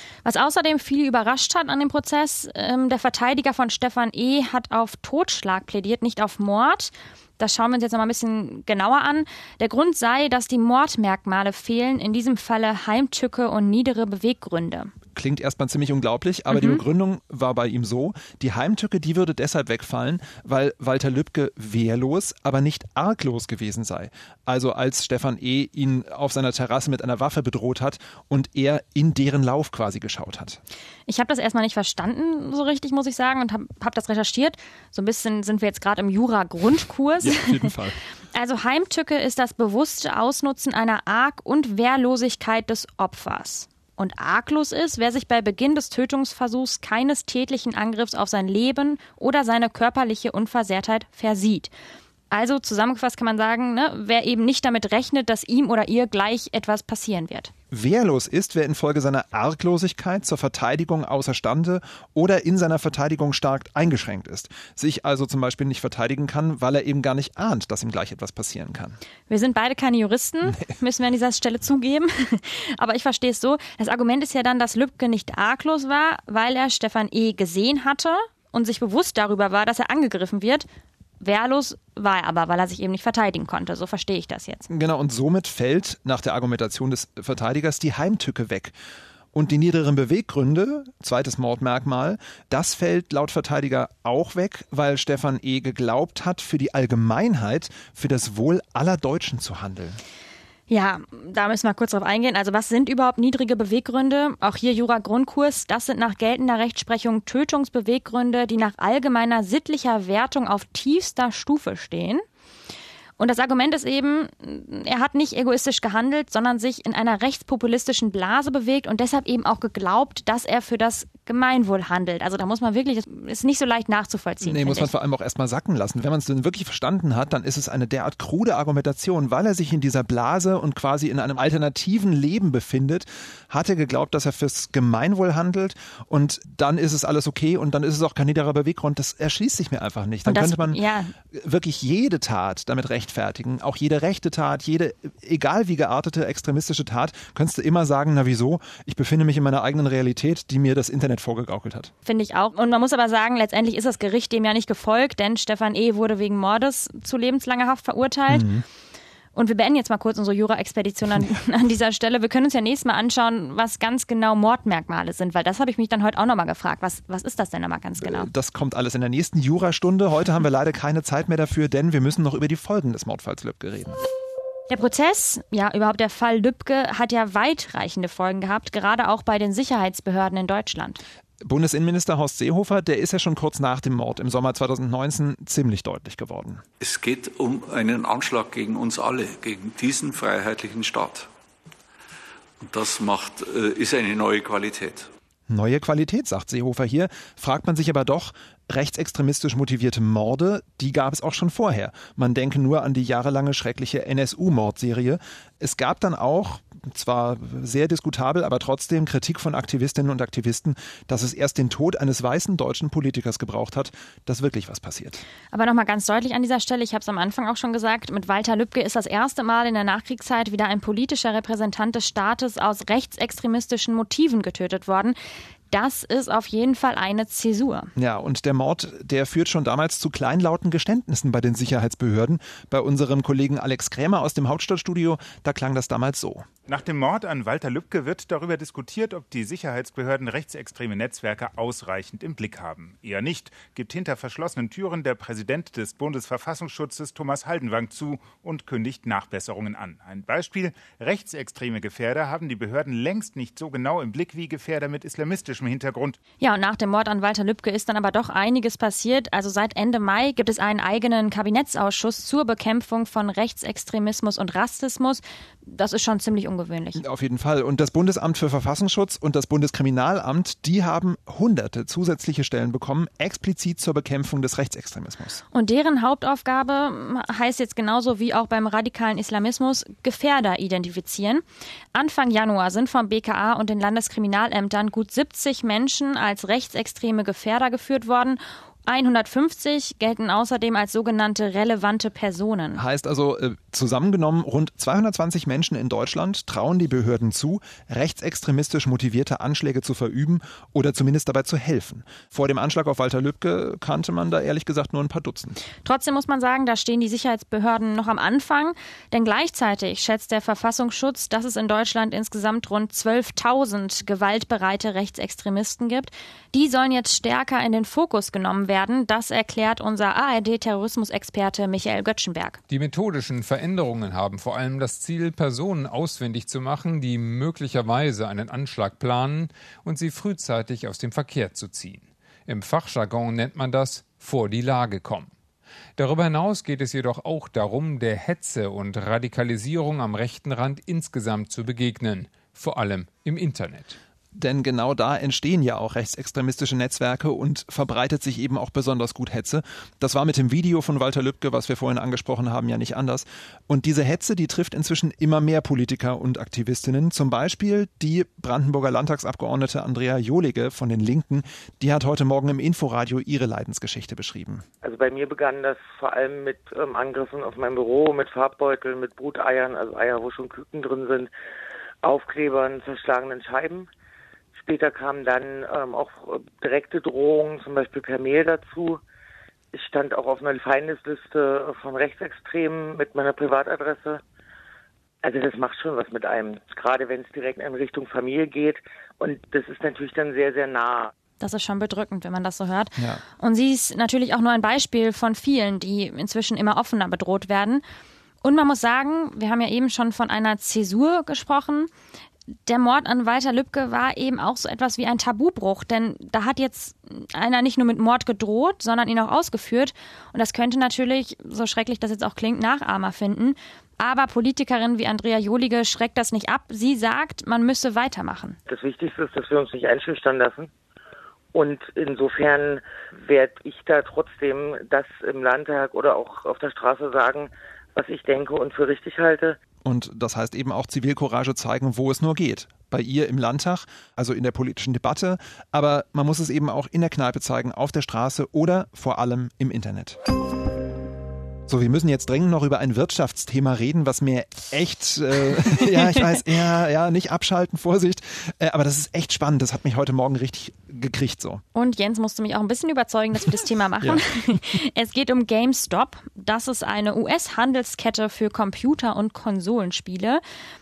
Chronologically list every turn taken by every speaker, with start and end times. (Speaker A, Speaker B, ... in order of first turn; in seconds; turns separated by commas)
Speaker A: 0.2-14.9, Speaker B: 15.1-30.6, Speaker A: 16.5-16.8, Speaker A: 31.1-37.7, Speaker B: 37.2-38.0, Speaker A: 38.3-51.7, Speaker A: 52.3-57.5, Speaker B: 57.7-69.0, Speaker A: 69.3-80.7, Speaker A: 81.2-84.7, Speaker B: 84.7-88.8, Speaker B: 89.3-100.0, Speaker A: 100.7-112.2, Speaker A: 113.2-124.9, Speaker B: 124.4-151.9, Speaker A: 140.2-141.2, Speaker A: 152.1-158.5, Speaker B: 158.3-158.6, Speaker A: 159.3-168.3, Speaker B: 168.0-174.0, Speaker A: 174.7-181.0, Speaker B: 181.4-186.7, Speaker C: 186.8-191.3, Speaker C: 192.6-195.1, Speaker B: 195.5-215.2, Speaker A: 215.5-225.2, Speaker A: 225.7-227.9, Speaker B: 228.0-236.5, Speaker D: 236.7-255.6, Speaker E: 247.4-247.9, Speaker E: 251.2-251.6, Speaker E: 253.1-256.1, Speaker A: 256.4-267.0, Speaker B: 267.0-275.4, Speaker A: 275.5-292.8, Speaker B: 292.8-305.6, Speaker A: 305.8-322.6, Speaker E: 322.7-335.3, Speaker E: 336.0-344.0, Speaker B: 344.3-364.7, Speaker F: 364.8-371.3, Speaker F: 372.0-373.9, Speaker F: 374.6-379.0, Speaker F: 379.7-384.2, Speaker F: 385.2-391.1, Speaker A: 391.4-397.8, Speaker B: 393.0-393.2, Speaker A: 398.4-401.9, Speaker A: 402.7-418.6, Speaker F: 418.7-420.7, Speaker F: 421.5-429.6, Speaker B: 429.8-440.2, Speaker B: 441.7-451.6, Speaker A: 451.7-460.4